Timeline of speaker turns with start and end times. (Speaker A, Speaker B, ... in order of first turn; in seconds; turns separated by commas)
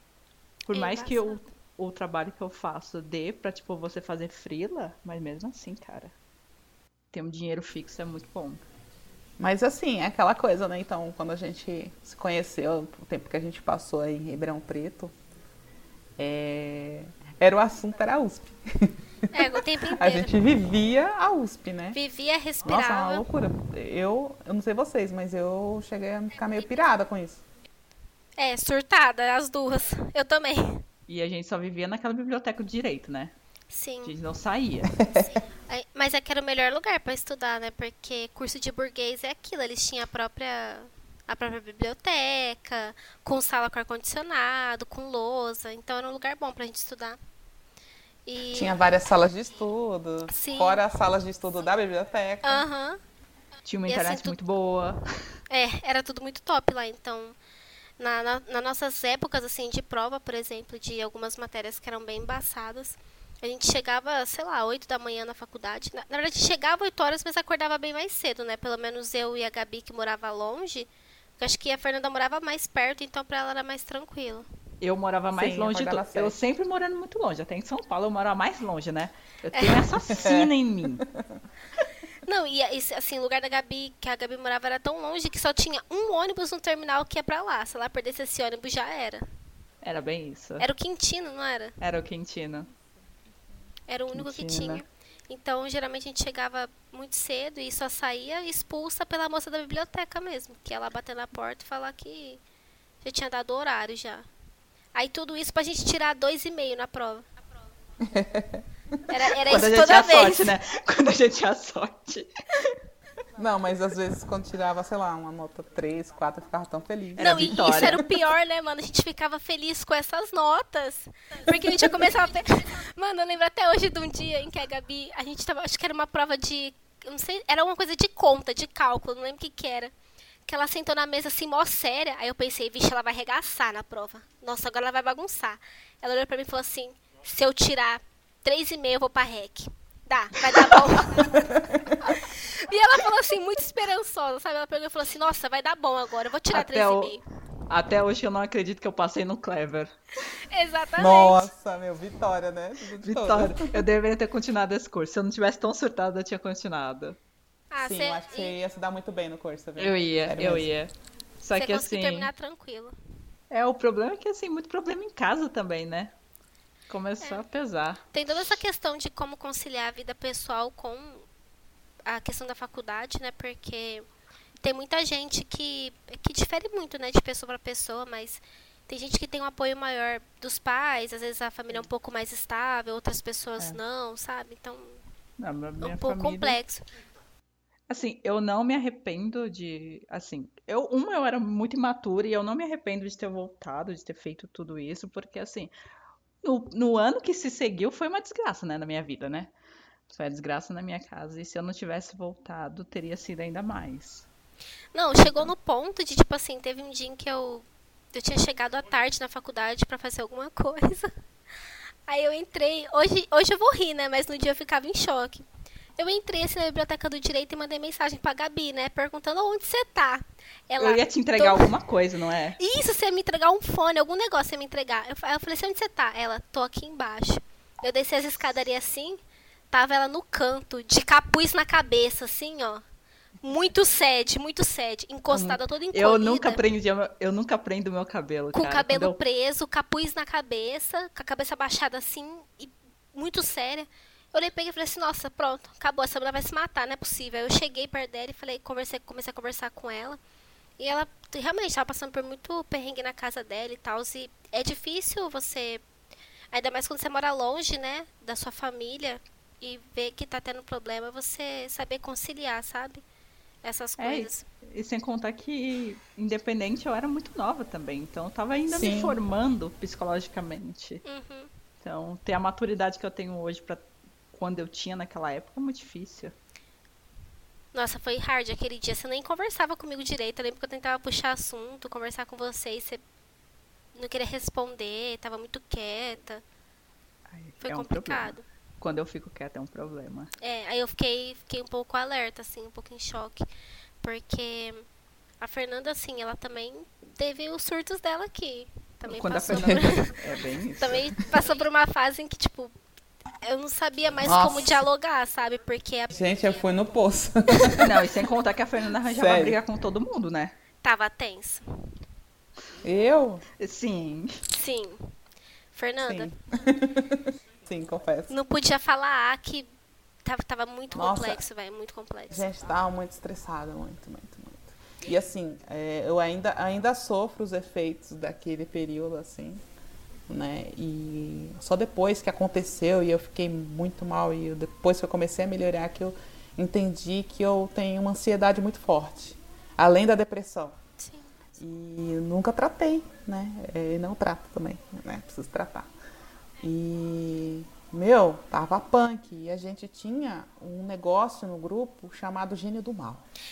Speaker A: 0.7-6.1, Speaker B: 0.7-1.5, Speaker A: 7.1-8.6, Speaker C: 9.4-15.1, Speaker C: 16.2-22.0, Speaker B: 19.3-20.4, Speaker B: 21.9-23.3, Speaker C: 22.6-27.4, Speaker B: 28.4-30.9, Speaker A: 31.1-33.4, Speaker B: 33.7-34.2, Speaker A: 34.0-35.0, Speaker C: 35.0-35.3, Speaker B: 35.7-47.2, Speaker B: 48.3-48.8, Speaker C: 48.5-52.7, Speaker B: 50.3-50.8, Speaker B: 52.4-53.0, Speaker A: 53.7-55.0, Speaker B: 53.9-54.4, Speaker B: 55.5-57.4, Speaker B: 58.0-74.5, Speaker A: 74.8-81.1, Speaker C: 75.3-76.4, Speaker B: 79.5-80.0, Speaker C: 80.1-80.5, Speaker B: 82.2-89.2, Speaker A: 89.8-90.7, Speaker B: 90.6-91.8, Speaker A: 91.8-92.7, Speaker B: 93.9-102.4, Speaker A: 94.1-94.8, Speaker B: 103.0-104.3, Speaker B: 104.9-107.3, Speaker C: 108.0-109.0, Speaker B: 109.1-110.6, Speaker A: 109.4-112.8, Speaker C: 113.4-118.1, Speaker A: 117.2-118.1, Speaker B: 117.2-129.9, Speaker B: 130.5-141.4, Speaker A: 140.5-141.2, Speaker C: 141.3-142.1, Speaker B: 142.0-147.2, Speaker A: 146.5-147.1, Speaker A: 147.7-149.9, Speaker B: 150.5-151.5, Speaker C: 151.0-153.8, Speaker A: 153.0-157.2, Speaker B: 157.7-158.6, Speaker C: 157.8-160.7, Speaker A: 159.8-162.3, Speaker B: 161.6-162.9, Speaker A: 163.5-166.1, Speaker A: 166.9-168.0, Speaker B: 168.1-171.2, Speaker B: 172.1-174.1, Speaker B: 174.6-185.0, Speaker A: 185.4-186.6, Speaker B: 185.8-186.8, Speaker A: 187.9-195.7, Speaker A: 196.4-199.5, Speaker A: 200.1-204.3, Speaker B: 204.9-211.1, Speaker A: 205.2-205.5, Speaker B: 212.1-215.5, Speaker B: 216.0-221.8, Speaker A: 220.8-222.6, Speaker B: 222.6-229.2, Speaker B: 229.7-232.8, Speaker B: 233.4-236.6, Speaker A: 235.3-239.2, Speaker B: 238.5-250.2, Speaker B: 250.8-255.8, Speaker B: 256.5-263.0, Speaker B: 263.6-264.4, Speaker A: 264.0-271.0, Speaker C: 268.7-269.2, Speaker B: 271.1-271.5, Speaker A: 271.8-276.4, Speaker B: 277.7-283.0, Speaker B: 283.9-286.4, Speaker A: 287.3-290.3, Speaker B: 287.6-288.4, Speaker B: 290.4-293.4, Speaker B: 294.0-294.9, Speaker B: 295.4-302.7, Speaker A: 299.1-301.1, Speaker C: 299.5-299.8, Speaker B: 303.4-306.6, Speaker C: 304.2-304.8, Speaker C: 306.1-307.9, Speaker B: 307.5-307.8, Speaker A: 307.7-310.6, Speaker C: 309.1-309.6, Speaker B: 310.8-311.6, Speaker C: 312.8-313.4, Speaker A: 313.6-314.4, Speaker B: 314.5-315.1, Speaker B: 315.7-316.3, Speaker C: 316.1-318.3, Speaker B: 318.3-319.7, Speaker B: 320.2-322.5, Speaker C: 320.9-321.4, Speaker C: 322.3-329.6, Speaker C: 330.3-340.8, Speaker B: 341.0-341.3, Speaker C: 341.6-345.9, Speaker C: 346.6-353.2